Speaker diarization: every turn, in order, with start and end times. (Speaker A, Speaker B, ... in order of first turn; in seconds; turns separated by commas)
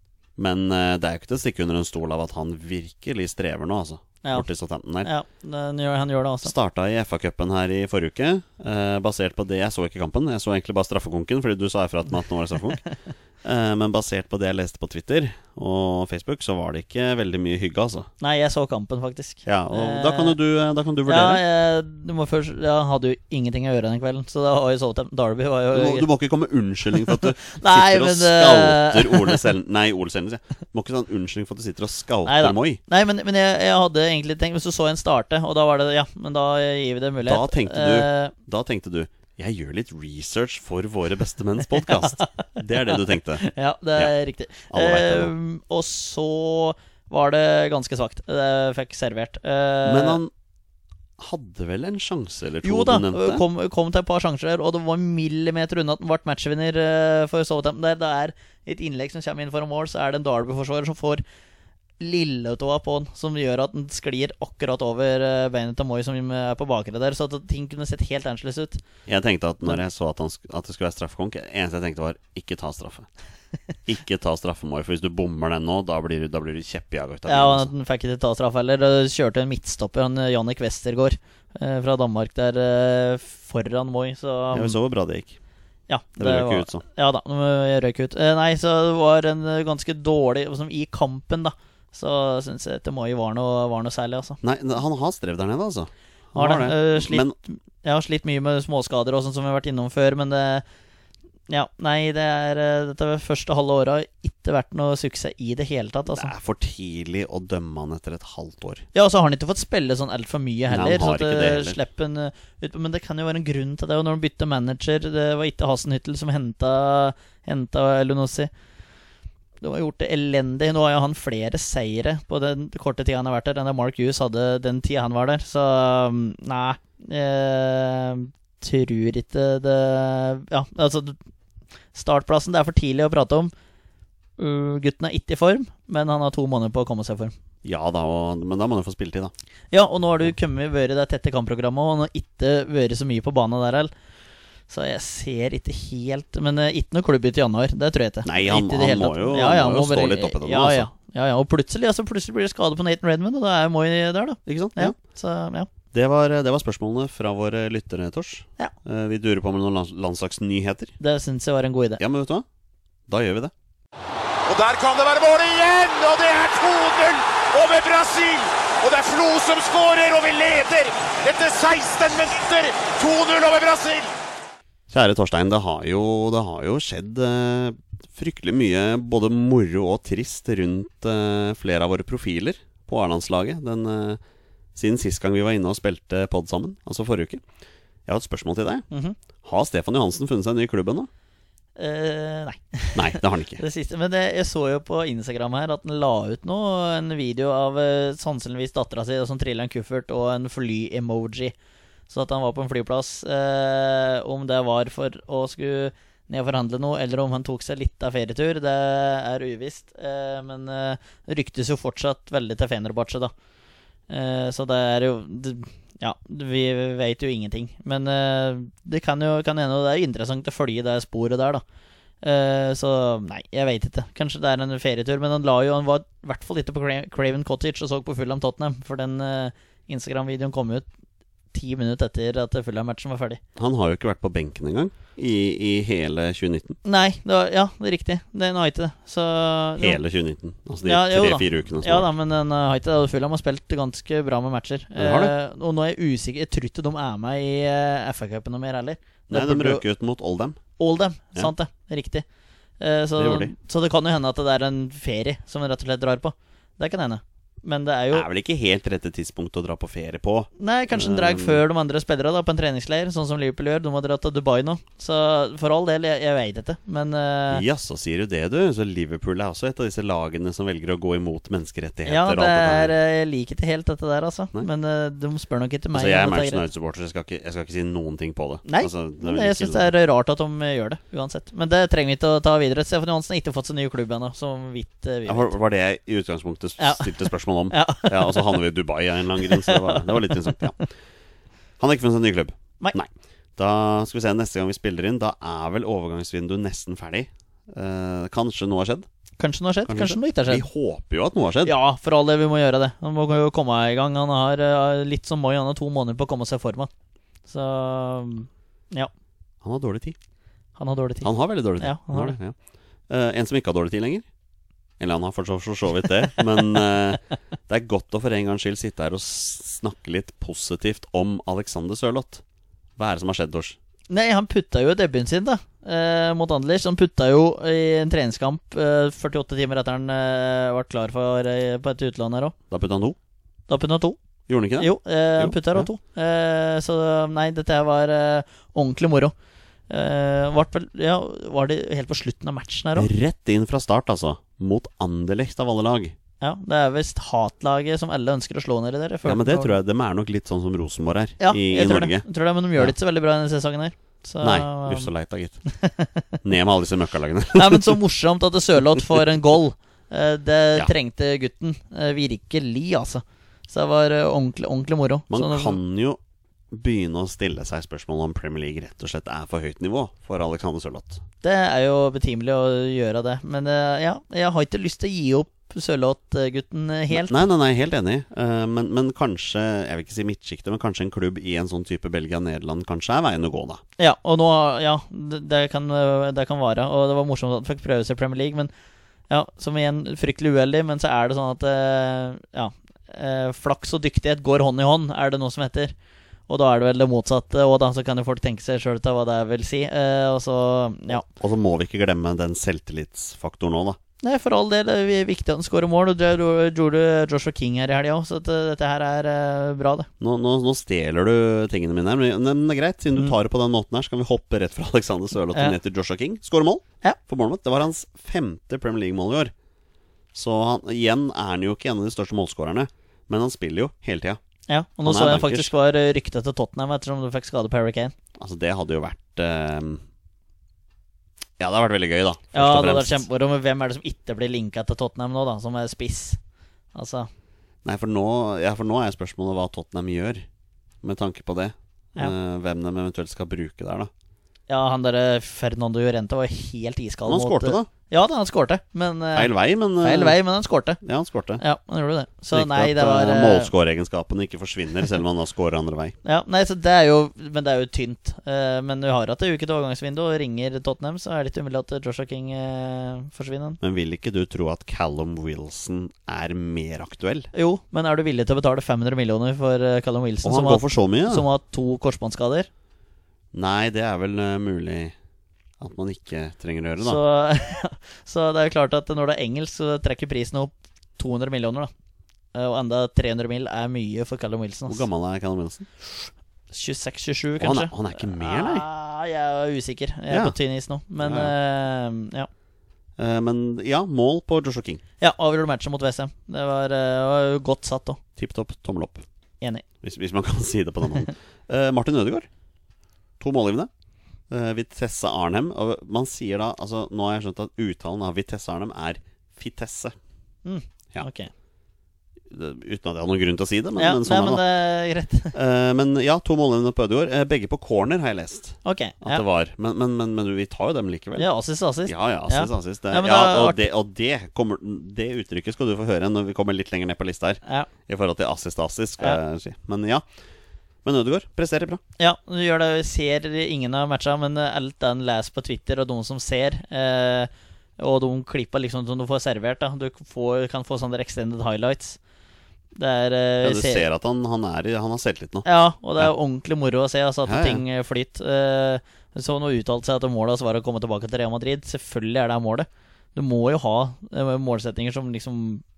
Speaker A: 0.4-5.1, Speaker B: 5.0-6.5, Speaker A: 6.4-12.8, Speaker A: 13.4-18.1, Speaker B: 18.2-20.4, Speaker A: 19.5-21.4, Speaker B: 21.1-26.1, Speaker A: 25.7-32.8, Speaker B: 27.1-29.5, Speaker B: 32.3-38.3, Speaker A: 37.2-43.5, Speaker B: 41.9-50.2, Speaker A: 44.7-45.3, Speaker A: 49.9-50.3, Speaker A: 51.2-53.4, Speaker B: 52.6-61.2, Speaker B: 62.0-68.8, Speaker A: 69.1-73.1, Speaker A: 73.9-77.7, Speaker B: 77.3-84.8, Speaker A: 84.5-85.4, Speaker B: 85.9-94.4, Speaker A: 86.2-86.8, Speaker A: 94.4-97.3, Speaker B: 96.3-100.6, Speaker B: 101.5-106.3, Speaker A: 106.1-108.8, Speaker B: 108.9-118.5, Speaker A: 110.7-111.8, Speaker B: 119.6-131.2, Speaker B: 131.9-133.5, Speaker B: 134.4-137.3, Speaker A: 137.6-139.3, Speaker B: 139.7-143.9, Speaker B: 144.7-155.7, Speaker A: 148.2-150.9, Speaker A: 154.5-154.9, Speaker A: 155.9-160.9, Speaker B: 161.0-162.0, Speaker A: 162.0-162.4, Speaker A: 163.1-163.5, Speaker C: 164.5-174.1, Speaker A: 174.9-184.2, Speaker A: 184.8-187.4, Speaker A: 188.1-188.8, Speaker B: 188.9-189.2, Speaker A: 189.4-191.1, Speaker B: 191.8-201.5, Speaker A: 192.9-193.6, Speaker B: 202.1-213.3, Speaker B: 214.1-221.6, Speaker B: 222.2-230.9, Speaker B: 231.5-233.4, Speaker A: 233.6-236.8, Speaker B: 236.8-240.0, Speaker A: 239.8-242.1, Speaker B: 240.8-249.8, Speaker A: 245.0-245.3, Speaker A: 249.3-250.6, Speaker B: 250.8-252.2, Speaker B: 252.8-258.3, Speaker A: 253.2-253.5, Speaker A: 258.1-261.6, Speaker B: 260.6-267.6, Speaker A: 267.5-272.9, Speaker B: 272.1-276.6, Speaker A: 275.9-279.9, Speaker B: 278.6-285.5, Speaker A: 285.3-290.9, Speaker B: 286.8-288.6, Speaker B: 289.5-290.5, Speaker A: 291.8-299.1, Speaker B: 299.4-300.7, Speaker A: 299.9-301.7, Speaker B: 301.6-306.9, Speaker B: 307.5-309.1, Speaker A: 309.6-310.2, Speaker B: 310.8-312.4, Speaker A: 311.2-312.6, Speaker A: 313.1-314.3, Speaker A: 315.0-322.4, Speaker A: 323.0-323.8, Speaker B: 324.1-332.6, Speaker A: 332.7-333.2, Speaker B: 333.7-334.2, Speaker A: 334.5-335.9, Speaker B: 334.8-339.3, Speaker B: 339.9-343.1, Speaker A: 343.0-346.1, Speaker B: 346.4-349.7, Speaker A: 349.2-352.2, Speaker B: 351.4-355.1, Speaker A: 354.4-355.6, Speaker B: 355.7-356.3, Speaker A: 356.4-358.0, Speaker B: 357.5-365.8, Speaker A: 365.3-366.2, Speaker A: 366.7-371.2, Speaker B: 371.4-377.4, Speaker A: 377.1-383.8, Speaker B: 384.0-388.7, Speaker B: 389.3-395.9, Speaker B: 396.5-401.2, Speaker A: 401.2-404.0, Speaker B: 404.2-410.1, Speaker A: 410.2-419.5, Speaker A: 420.3-424.4, Speaker B: 424.7-428.1, Speaker A: 425.0-425.7, Speaker A: 428.4-430.0, Speaker A: 431.6-433.3, Speaker B: 432.5-436.4, Speaker B: 436.9-437.3, Speaker A: 437.8-440.5, Speaker A: 441.0-444.1, Speaker B: 444.7-451.0, Speaker A: 447.3-447.9, Speaker A: 449.4-450.4, Speaker A: 451.0-451.6, Speaker B: 451.6-453.7, Speaker A: 452.5-456.2, Speaker B: 456.2-463.8, Speaker A: 463.8-467.5, Speaker B: 467.5-472.7, Speaker A: 470.4-471.5, Speaker A: 473.5-475.1, Speaker A: 475.8-477.2, Speaker B: 477.0-481.9, Speaker B: 482.5-485.1, Speaker A: 484.9-485.9, Speaker B: 486.7-492.5, Speaker A: 487.6-488.9, Speaker A: 490.3-490.6, Speaker A: 491.2-491.5, Speaker A: 493.2-495.0, Speaker B: 495.2-498.2, Speaker A: 498.4-499.2, Speaker A: 500.0-502.5, Speaker A: 503.4-503.9, Speaker A: 504.5-510.1, Speaker B: 510.6-511.5, Speaker A: 512.5-514.6, Speaker B: 514.0-515.5, Speaker A: 515.5-521.5, Speaker B: 518.9-519.4, Speaker B: 521.4-523.9, Speaker A: 522.0-530.2, Speaker A: 531.0-532.0, Speaker B: 532.2-542.2, Speaker B: 543.0-544.0, Speaker A: 543.6-545.7, Speaker B: 545.6-555.8, Speaker A: 547.5-547.8